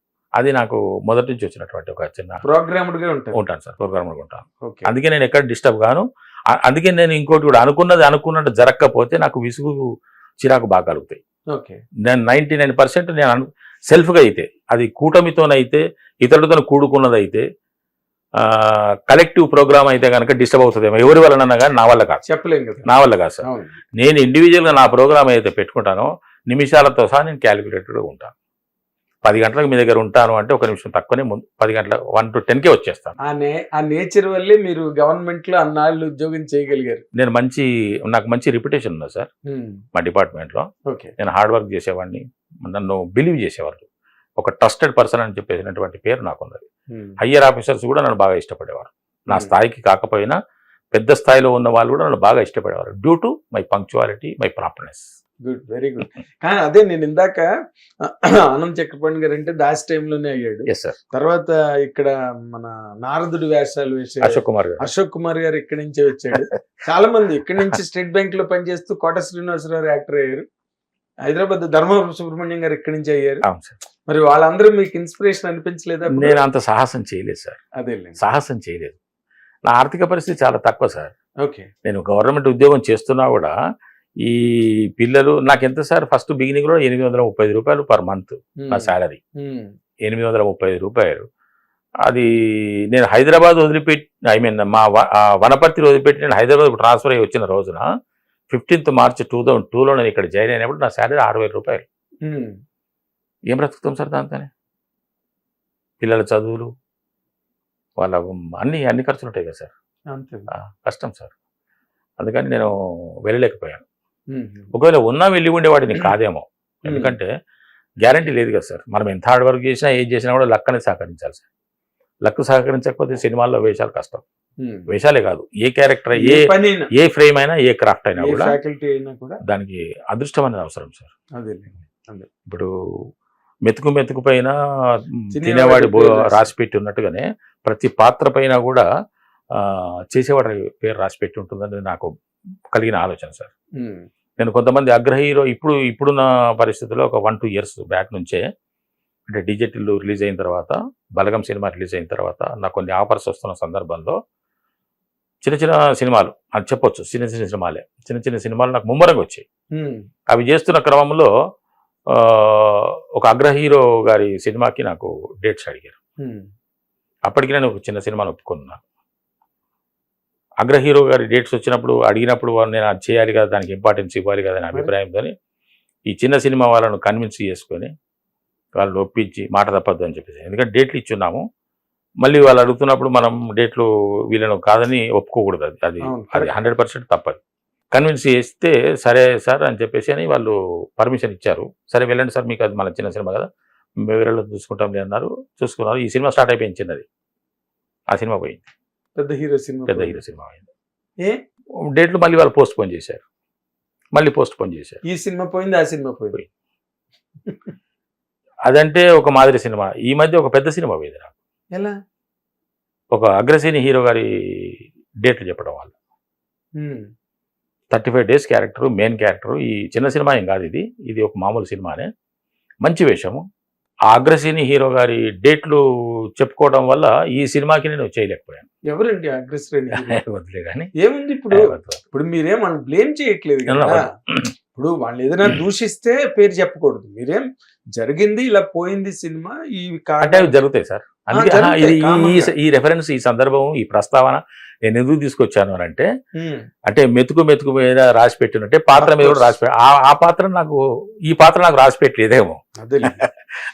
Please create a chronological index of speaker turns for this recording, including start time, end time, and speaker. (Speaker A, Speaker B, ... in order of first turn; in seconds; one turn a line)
Speaker A: 0.4-2.4
Speaker B: 2.4-3.4
Speaker A: 3.3-9.8
Speaker B: 4.6-4.9
Speaker A: 10.4-11.2
Speaker B: 11.5-11.8
Speaker A: 12.1-17.4
Speaker A: 18.4-22.2
Speaker B: 22.3-22.9
Speaker A: 22.9-23.4
Speaker B: 23.4-23.7
Speaker A: 24.0-28.3
Speaker A: 29.2-33.2
Speaker B: 33.3-37.0
Speaker A: 37.1-39.3
Speaker B: 39.5-39.8
Speaker A: 39.9-40.7
Speaker B: 40.9-41.1
Speaker A: 41.2-43.9
Speaker A: 44.4-46.6
Speaker B: 46.9-47.2
Speaker A: 47.2-50.4
Speaker A: 50.9-55.0
Speaker B: 55.5-57.5
Speaker B: 58.0-70.5
Speaker A: 60.7-61.0
Speaker A: 64.2-64.9
Speaker B: 71.3-73.4
Speaker A: 73.5-73.8
Speaker B: 74.1-76.4
Speaker A: 76.1-77.6
Speaker B: 77.8-78.2
Speaker A: 78.2-79.0
Speaker A: 79.7-81.1
Speaker B: 81.4-81.7
Speaker A: 81.8-83.5
Speaker A: 84.2-89.2
Speaker B: 88.6-89.7
Speaker A: 90.1-91.3
Speaker A: 92.0-97.8
Speaker A: 98.5-101.8
Speaker B: 102.3-102.6
Speaker A: 103.5-104.5
Speaker A: 106.0-106.7
Speaker A: 108.0-109.7
Speaker B: 110.1-110.5
Speaker A: 110.8-111.3
Speaker A: 112.2-112.7
Speaker A: 113.3-113.8
Speaker B: 114.3-114.7
Speaker A: 114.7-117.3
Speaker B: 116.9-117.1
Speaker A: 118.0-121.5
Speaker A: 122.2-124.2
Speaker B: 124.6-124.9
Speaker A: 124.9-128.6
Speaker B: 126.2-126.9
Speaker B: 128.2-129.4
Speaker A: 129.5-131.1
Speaker B: 131.4-132.3
Speaker A: 133.7-134.6
Speaker B: 135.3-136.5
Speaker A: 135.4-138.9
Speaker A: 139.6-142.1
Speaker A: 142.7-143.5
Speaker B: 143.8-144.1
Speaker A: 144.4-148.4
Speaker A: 149.3-154.2
Speaker A: 155.4-159.4
Speaker B: 159.8-160.0
Speaker A: 160.3-161.3
Speaker A: 162.1-166.0
Speaker A: 167.3-168.8
Speaker A: 170.6-175.3
Speaker A: 176.1-177.9
Speaker A: 178.8-181.4
Speaker A: 182.2-187.4
Speaker B: 186.0-186.5
Speaker A: 187.9-193.5
Speaker A: 194.0-197.1
Speaker A: 198.1-198.7
Speaker B: 199.2-200.2
Speaker A: 199.9-200.7
Speaker A: 201.9-203.2
Speaker A: 204.1-205.0
Speaker B: 205.1-206.4
Speaker B: 207.5-207.7
Speaker A: 208.7-211.3
Speaker A: 213.1-215.9
Speaker B: 216.8-217.0
Speaker A: 217.9-222.1
Speaker A: 222.8-223.4
Speaker A: 224.1-225.8
Speaker A: 226.4-228.7
Speaker B: 228.9-230.2
Speaker A: 229.9-230.9
Speaker B: 231.0-234.1
Speaker A: 231.5-232.0
Speaker A: 233.7-234.5
Speaker B: 234.8-240.5
Speaker A: 240.2-246.1
Speaker B: 241.3-242.5
Speaker B: 246.4-246.7
Speaker A: 246.9-253.3
Speaker B: 248.9-249.5
Speaker B: 252.8-253.2